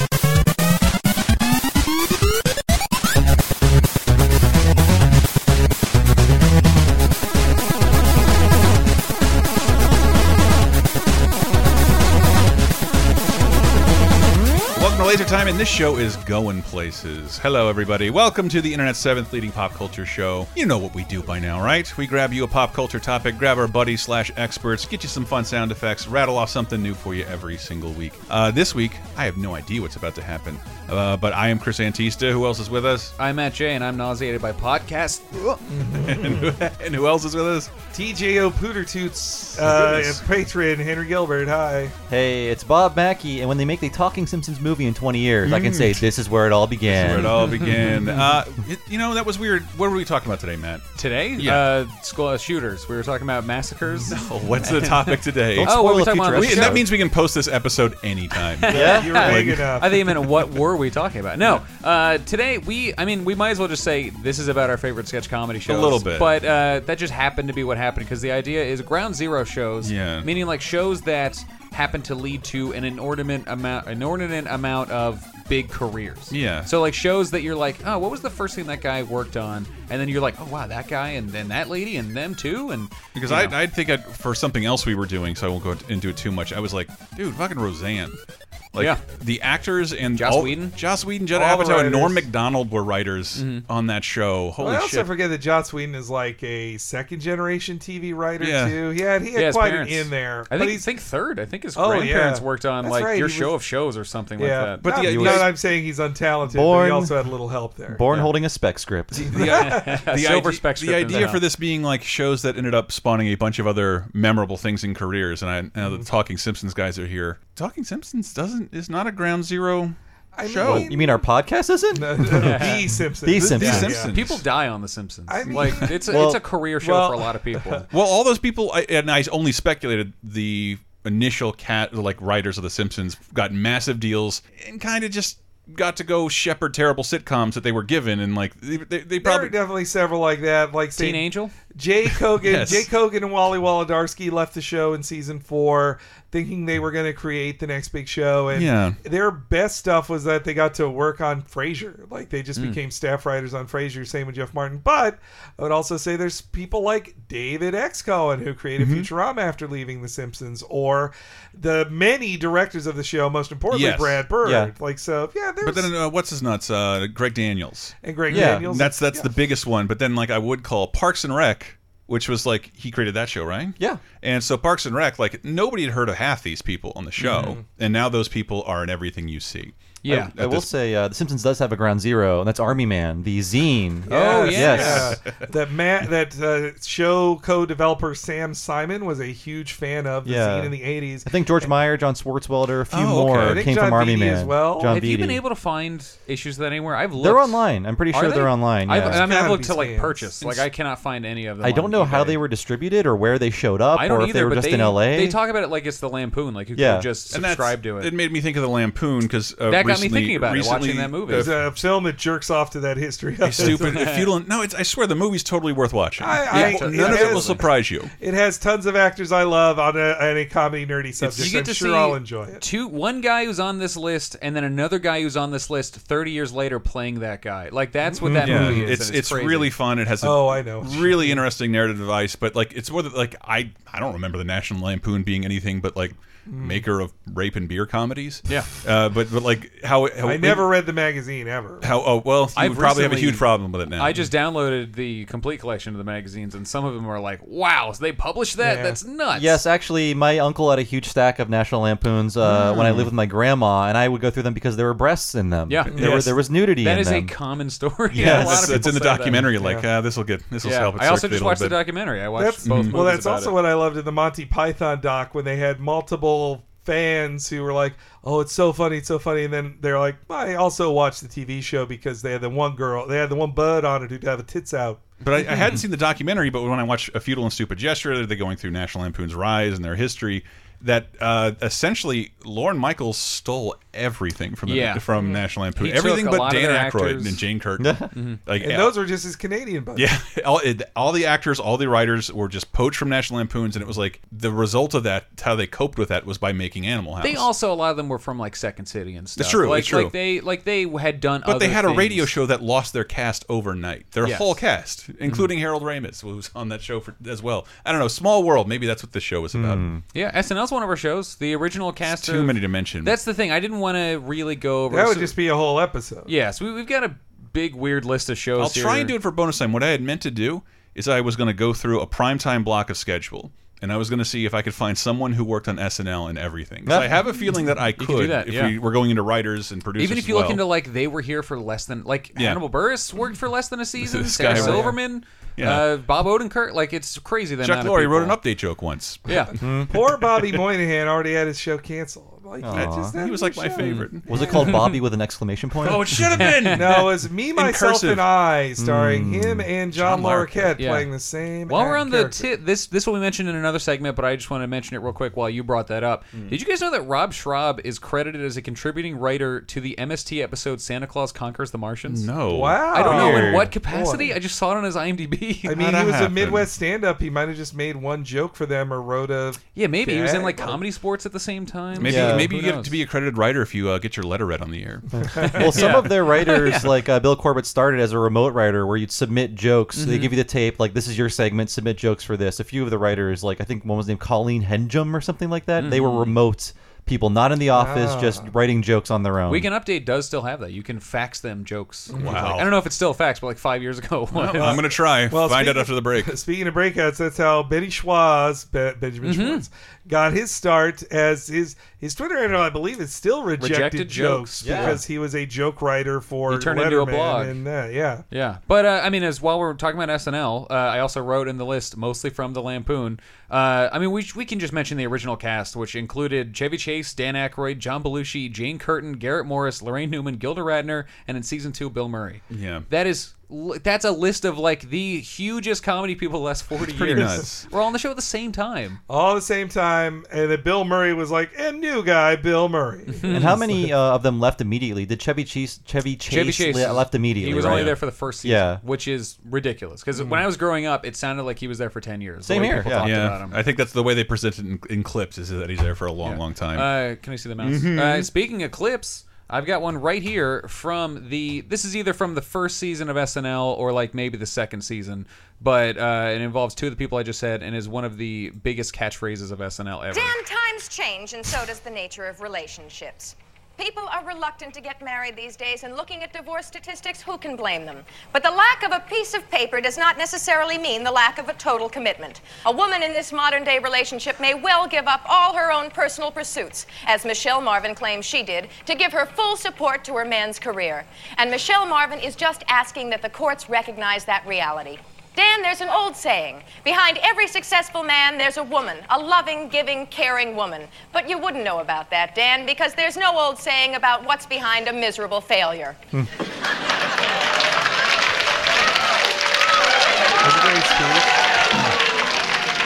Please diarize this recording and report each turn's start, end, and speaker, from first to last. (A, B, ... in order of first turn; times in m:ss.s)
0:14.7-0:33.1 A
0:33.2-0:35.3 B
0:35.3-0:37.7 A
0:35.7-0:36.6 C
0:37.9-0:41.9 C
0:39.6-0:40.2 A
0:42.1-0:47.4 D
0:45.4-0:46.1 A
0:46.9-0:51.6 A
0:47.4-0:48.2 B
0:51.0-0:55.1 B
0:54.0-0:59.7 A
0:55.6-0:56.9 D
0:55.6-0:56.8 B
0:58.6-1:23.6 B
0:58.7-0:59.3 D
0:58.7-1:00.0 C
1:05.7-1:06.3 A
1:09.8-1:10.3 A
1:16.3-1:16.7 A
1:23.1-1:28.2 A
1:28.7-1:35.1 A
1:30.2-1:30.8 B
1:31.3-1:32.3 C
1:33.4-1:33.6 B
1:34.6-1:40.8 C
1:38.4-1:38.8 A
1:39.3-1:44.8 B
1:41.8-1:43.5 C
1:44.4-1:48.1 C
1:44.8-1:45.5 A
1:44.9-1:45.5 D
1:46.4-1:47.1 D
1:47.9-1:49.4 D
1:49.2-1:50.0 C
1:49.3-2:00.9 A
1:49.5-1:51.4 B
2:00.3-2:01.2 C
2:00.6-2:04.0 D
2:01.9-2:04.1 C
2:02.3-2:02.9 B
2:03.3-2:04.4 A
2:03.6-2:07.9 B
2:05.3-2:06.2 C
2:05.5-2:06.4 D
2:06.8-2:07.8 C
2:07.9-2:19.5 A
2:19.2-2:45.9 C
2:21.0-2:21.5 B
2:22.4-2:22.9 A
2:28.5-2:29.0 A
2:38.8-2:39.1 A
2:43.7-2:44.2 A
2:44.4-2:44.7 D
2:45.6-3:00.7 A
2:48.0-2:49.3 C
2:48.3-2:48.6 D
2:57.3-2:57.6 C
3:00.0-3:00.3 B
3:00.1-3:05.2 D
3:04.1-3:11.7 C
3:04.1-3:05.1 B
3:04.6-3:05.4 A
3:10.2-3:15.4 D
3:12.9-3:13.7 A
3:13.4-3:15.0 C
3:14.9-3:22.4 B
3:17.2-3:19.2 D
3:19.0-3:20.2 C
3:21.6-3:25.4 D
3:23.9-3:28.1 B
3:26.7-3:27.1 D
3:27.3-3:31.5 A
3:29.7-3:31.5 B
3:31.3-3:34.1 C
3:33.4-3:38.1 A
3:33.6-3:34.3 B
3:36.2-3:37.6 C
3:36.5-3:37.7 B
3:38.2-3:42.6 C
3:41.2-3:49.7 B
3:48.0-3:48.9 C
3:48.4-4:00.7 A
3:50.2-3:51.4 C
3:56.5-3:56.8 C
4:00.2-4:01.9 C
4:01.8-4:04.2 A
4:02.6-4:09.6 B
4:08.6-4:09.0 C
4:09.3-4:17.3 D
4:12.4-4:13.1 A
4:15.7-4:19.5 B
4:15.9-4:16.2 C
4:18.1-4:21.8 A
4:18.1-4:18.8 D
4:19.6-4:19.8 C
4:20.6-4:23.6 B
4:22.4-4:35.0 C
4:22.6-4:23.0 A
4:35.2-4:48.9 A
4:44.7-4:45.1 B
4:45.7-4:47.4 B
4:47.8-4:48.1 D
4:48.6-4:50.1 C
4:50.0-4:57.5 A
4:57.2-5:02.3 B
4:59.4-5:00.1 A
5:01.4-5:09.8 A
5:04.2-5:04.6 B
5:09.5-5:10.0 D
5:10.1-5:15.4 B
5:12.0-5:13.1 A
5:14.9-5:16.3 C
5:16.3-5:19.1 B
5:18.6-5:30.6 A
5:26.8-5:27.2 D
5:28.0-5:28.8 B
5:30.0-5:38.4 B
5:32.4-5:32.6 A
5:34.0-5:35.0 A
5:34.5-5:35.0 C
5:35.6-5:35.9 A
5:37.6-5:39.2 A
5:39.2-5:39.5 B
5:39.6-5:40.0 D
5:39.6-5:44.5 C
5:39.9-5:40.6 A
5:42.6-5:43.2 D
5:42.7-5:44.7 A
5:43.8-5:44.1 B
5:44.3-5:46.1 D
5:45.8-5:48.2 A
5:46.4-5:47.0 B
5:46.7-5:52.5 C
5:48.8-5:49.7 D
5:49.9-5:50.8 A
5:50.8-5:51.1 B
5:51.7-6:02.3 B
6:02.1-6:03.6 A
6:02.5-6:04.3 C
6:02.9-6:05.8 B
6:03.0-6:03.7 D
6:05.6-6:10.8 C
6:05.7-6:06.7 A
6:09.7-6:12.9 B
6:12.0-6:15.1 A
6:12.0-6:12.5 D
6:15.1-6:29.7 D
6:15.6-6:17.0 B
6:20.0-6:20.4 B
6:25.8-6:26.4 B
6:27.7-6:28.5 C
6:29.5-6:34.8 B
6:32.1-6:32.4 C
6:32.1-6:32.7 A
6:34.4-6:36.3 A
6:34.6-6:48.2 C
6:39.2-6:39.6 B
6:43.6-6:45.0 B
6:44.6-6:45.0 D
6:46.5-6:47.6 B
6:48.3-7:09.0 B
7:02.5-7:02.8 A
7:06.9-7:07.7 A
7:09.1-7:13.6 C
7:13.1-7:13.6 B
7:13.3-7:18.8 D
7:16.3-7:23.6 B
7:17.6-7:17.9 A
7:20.1-7:20.4 C
7:22.4-7:23.1 D
7:23.0-7:26.9 A
7:26.2-7:40.4 B
7:27.6-7:28.3 A
7:40.1-8:16.0 E
8:20.4-8:21.2 C